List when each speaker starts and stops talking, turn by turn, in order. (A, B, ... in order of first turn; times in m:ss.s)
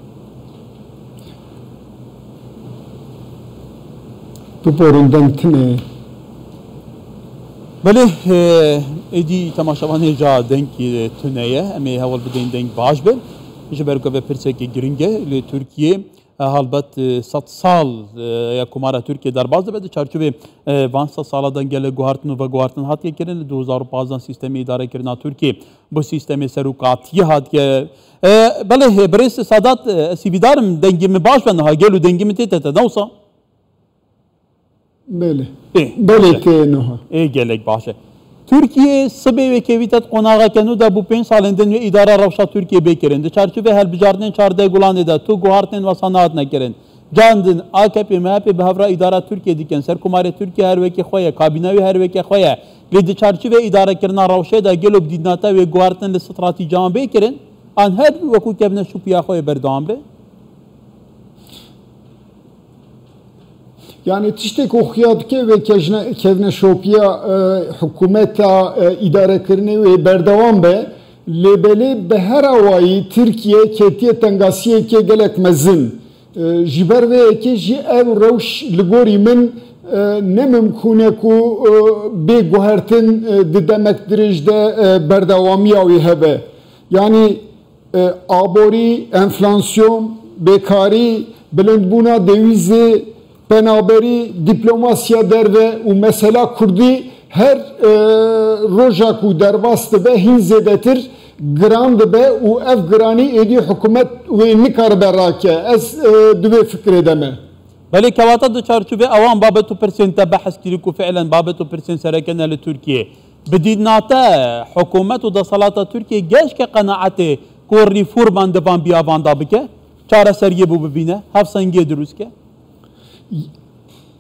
0:04.6-0:05.8 A
0:07.8-0:33.1 B
0:35.1-0:37.0 A
0:35.7-0:36.4 B
0:37.1-0:38.0 B
0:38.5-1:00.0 B
1:04.0-1:27.4 A
1:27.9-1:47.4 A
1:47.9-2:02.3 B